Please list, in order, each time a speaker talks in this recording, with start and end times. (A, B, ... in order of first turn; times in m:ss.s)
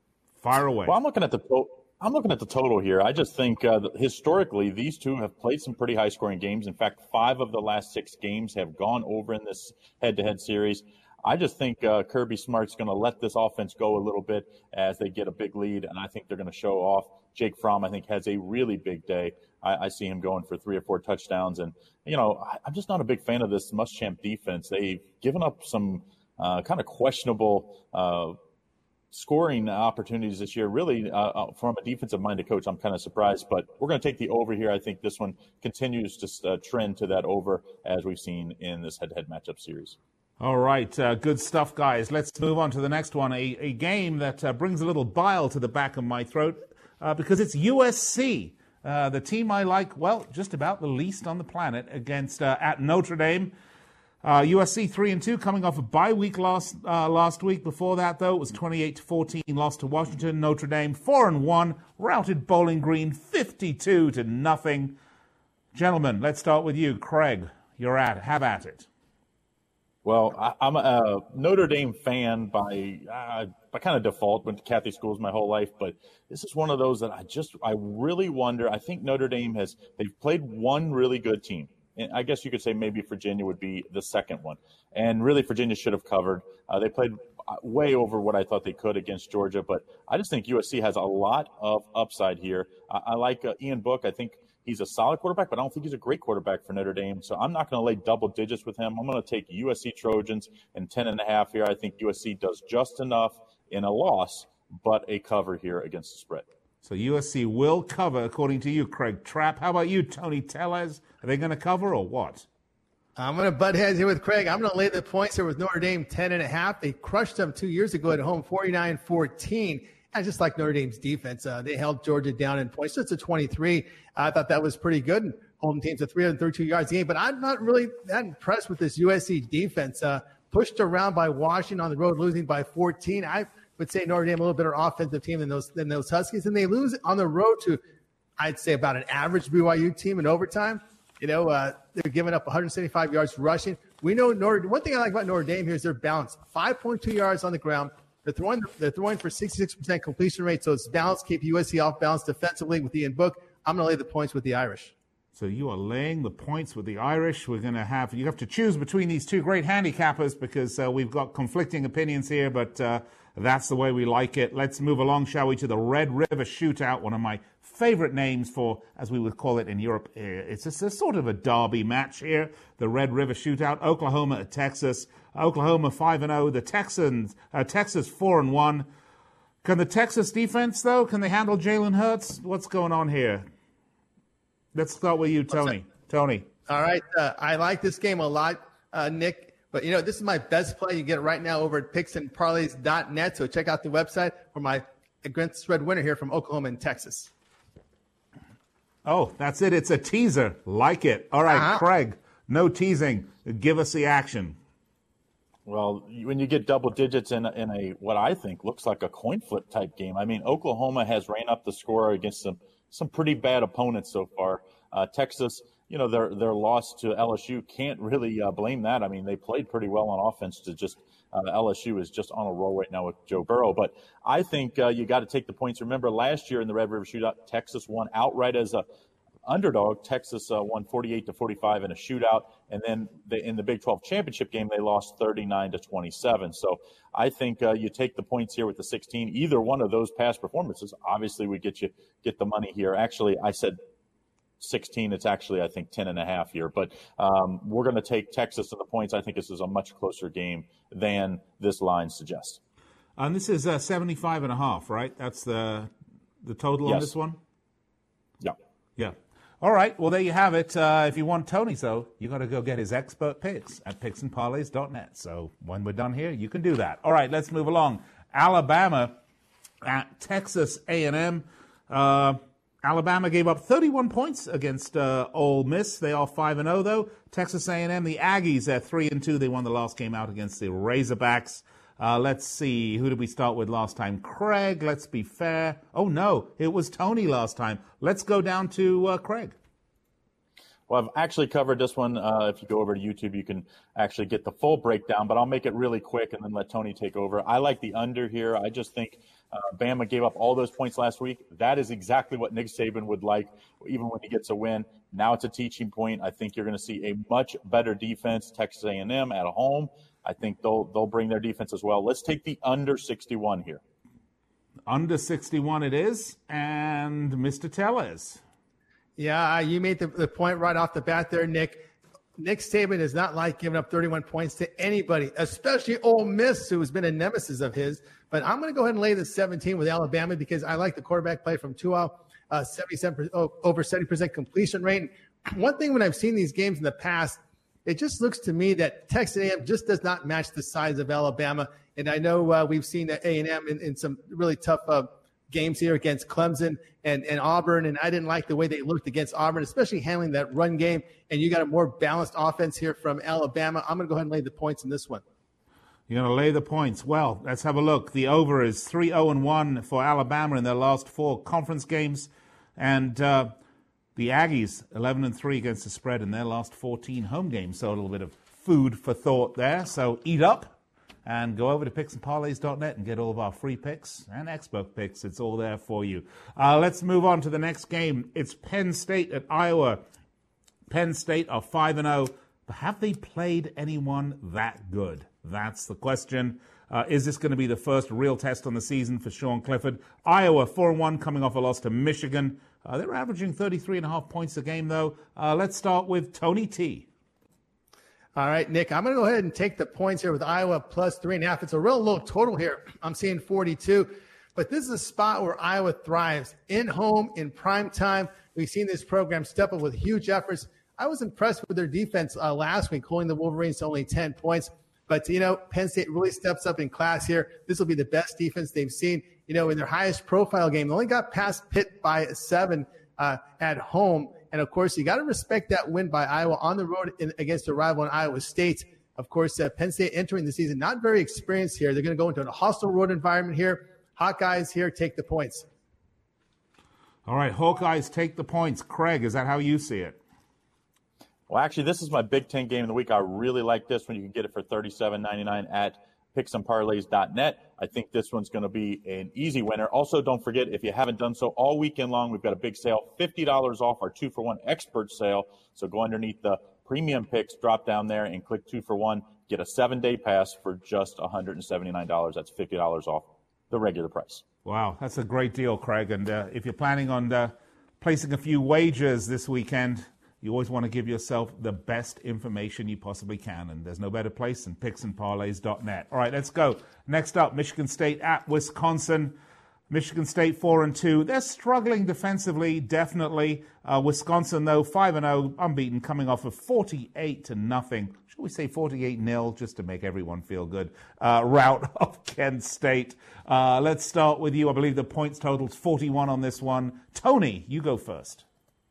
0:00.4-0:01.0 A
0:00.8-0:28.4 B
0:29.1-0:40.0 B
0:40.4-0:53.5 A
0:54.2-1:05.0 A
1:05.7-1:08.9 A
1:10.0-1:46.4 B
1:46.8-1:52.5 A
1:53.2-2:17.8 C
2:18.4-2:34.9 C
2:35.4-2:58.9 A
2:59.6-3:03.5 A
3:04.8-3:06.5 A
3:05.5-3:05.8 C
3:06.7-3:17.3 C
3:19.1-3:24.6 A
3:21.5-3:21.8 C
3:25.7-3:48.8 B
3:49.4-4:03.8 B
4:04.6-4:12.6 B
4:13.2-4:15.9 A
4:16.4-4:17.4 A
4:16.8-4:17.1 B
4:19.0-4:29.2 A
4:29.8-4:49.6 A
4:50.9-5:13.8 B
5:14.9-5:18.4 A
5:19.2-5:55.2 C
5:56.1-6:03.5 A
6:04.2-6:20.0 A
6:20.9-6:37.1 A
6:38.4-7:15.6 C
7:17.3-7:20.2 A
7:21.5-7:44.4 B
7:44.6-7:59.4 A
7:59.9-8:18.4 A